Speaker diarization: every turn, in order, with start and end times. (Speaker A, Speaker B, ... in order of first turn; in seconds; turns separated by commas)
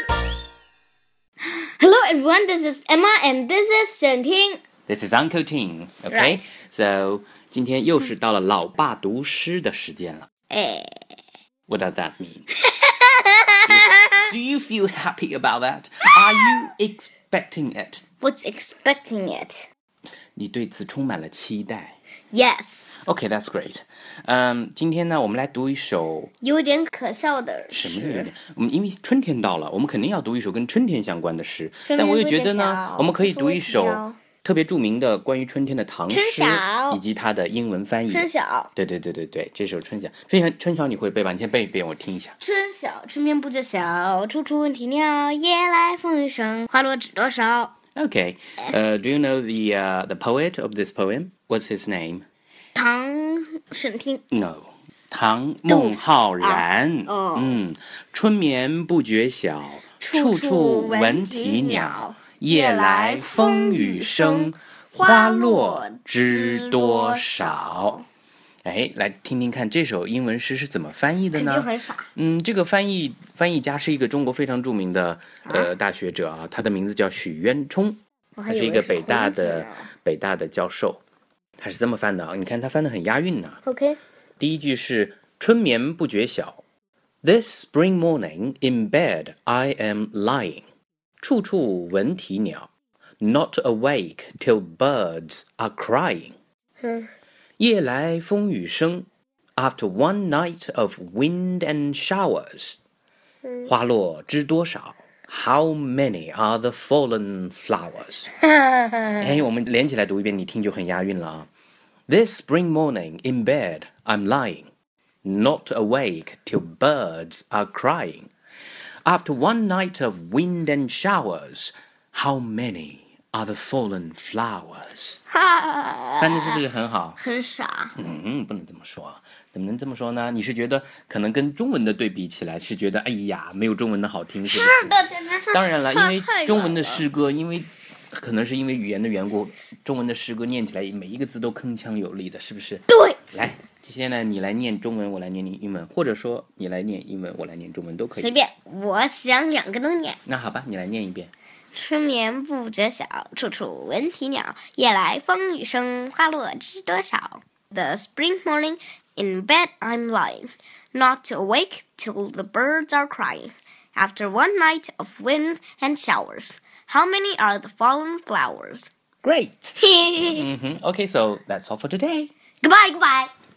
Speaker A: 1.5-4.6, Speaker B: 4.9-10.3, Speaker A: 6.1-6.4, Speaker A: 10.5-11.2, Speaker B: 11.7-12.4, Speaker A: 12.6-14.3, Speaker B: 13.7-18.0, Speaker A: 18.2-19.7, Speaker B: 20.4-22.0, Speaker A: 22.3-23.1, Speaker B: 23.0-26.3, Speaker A: 26.4-28.3, Speaker B: 27.7-42.4, Speaker A: 31.9-34.2, Speaker A: 36.1-37.0, Speaker A: 38.1-38.7, Speaker A: 42.4-47.8, Speaker B: 48.0-52.2, Speaker A: 52.7-54.2, Speaker B: 54.3-68.0, Speaker A: 55.7-57.6, Speaker A: 60.0-68.0, Speaker B: 68.6-81.0, Speaker A: 71.3-72.1, Speaker A: 75.4-75.7, Speaker A: 78.4-79.9, Speaker B: 81.6-83.6, Speaker A: 83.6-84.0, Speaker B: 84.4-86.6, Speaker B: 87.2-90.6, Speaker B: 91.2-92.7, Speaker B: 93.2-96.3, Speaker A: 96.8-97.1, Speaker B: 97.6-99.1, Speaker B: 99.6-102.8, Speaker A: 103.4-103.7, Speaker B: 103.7-108.3, Speaker A: 108.5-109.2, Speaker B: 109.2-111.5, Speaker B: 112.1-114.7, Speaker B: 115.2-118.3, Speaker B: 119.0-125.2, Speaker A: 125.3-126.6, Speaker B: 126.2-127.2, Speaker A: 127.2-127.9, Speaker B: 128.0-135.0, Speaker A: 134.5-137.1, Speaker B: 135.5-148.3, Speaker A: 142.9-143.2, Speaker A: 148.1-150.2, Speaker B: 150.2-151.3, Speaker A: 151.7-168.9, Speaker B: 169.2-169.8, Speaker A: 169.8-170.5, Speaker B: 170.3-172.3, Speaker A: 172.6-173.3